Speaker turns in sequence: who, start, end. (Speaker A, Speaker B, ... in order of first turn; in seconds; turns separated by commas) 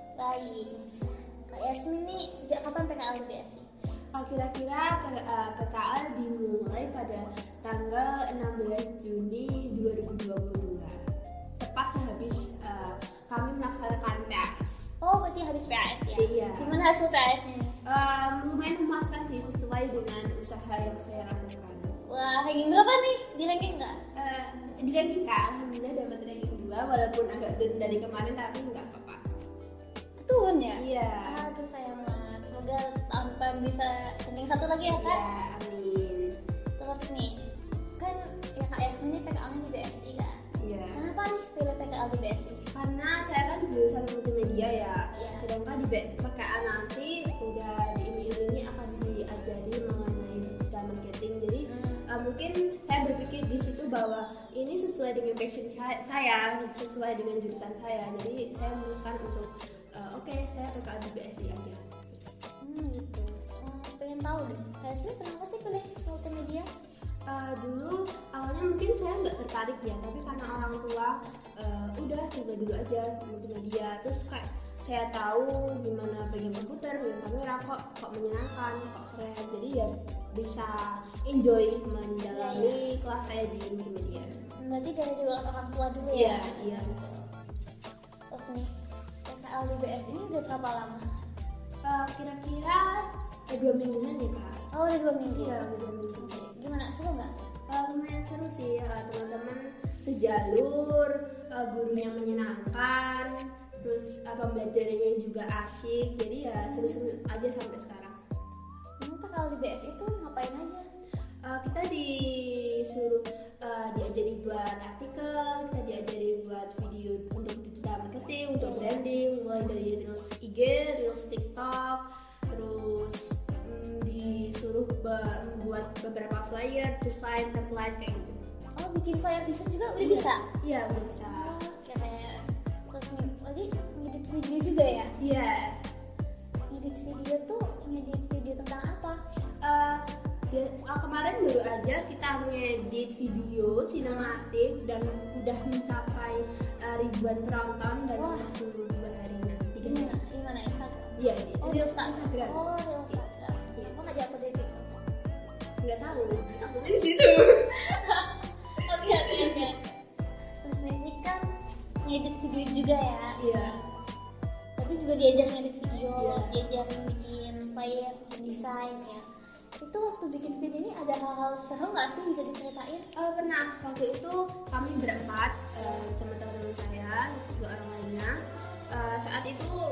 Speaker A: 0.2-0.8, Speaker A: 1.5-3.6, Speaker B: 4.1-10.9, Speaker B: 11.6-14.9, Speaker A: 15.0-17.8, Speaker B: 16.2-16.8, Speaker B: 17.9-21.9, Speaker A: 22.1-24.0, Speaker B: 24.1-29.2, Speaker A: 30.2-35.2, Speaker B: 30.8-31.4, Speaker B: 34.8-36.3, Speaker A: 36.8-37.3, Speaker A: 38.0-40.4, Speaker B: 40.6-41.0, Speaker A: 40.9-42.6, Speaker B: 42.7-62.2, Speaker A: 45.2-45.5, Speaker A: 51.6-52.0, Speaker A: 62.6-66.7, Speaker B: 67.3-84.3, Speaker A: 82.3-82.8, Speaker A: 84.6-87.3, Speaker B: 86.1-87.0, Speaker A: 88.3-88.7, Speaker A: 89.3-91.1, Speaker B: 91.8-94.6, Speaker A: 94.7-95.6, Speaker B: 95.3-96.4, Speaker A: 96.2-97.3, Speaker B: 97.7-103.3, Speaker B: 103.8-108.1, Speaker A: 106.7-107.0, Speaker A: 109.0-110.8, Speaker B: 111.5-128.4, Speaker A: 118.6-119.0, Speaker A: 128.8-130.4, Speaker B: 130.0-131.5, Speaker A: 131.2-132.4, Speaker A: 132.9-135.1, Speaker B: 135.2-135.7, Speaker A: 136.7-139.2, Speaker B: 139.6-150.2, Speaker A: 144.1-144.4, Speaker A: 148.2-148.5, Speaker A: 149.8-154.8, Speaker B: 151.2-153.2, Speaker B: 155.8-157.8, Speaker A: 156.2-156.6, Speaker A: 157.8-159.8, Speaker B: 158.9-159.7, Speaker A: 160.6-161.4, Speaker A: 162.0-163.8, Speaker B: 163.4-163.8, Speaker A: 164.8-169.2, Speaker B: 166.2-166.7, Speaker A: 169.8-173.0, Speaker B: 173.2-178.3, Speaker B: 178.9-179.8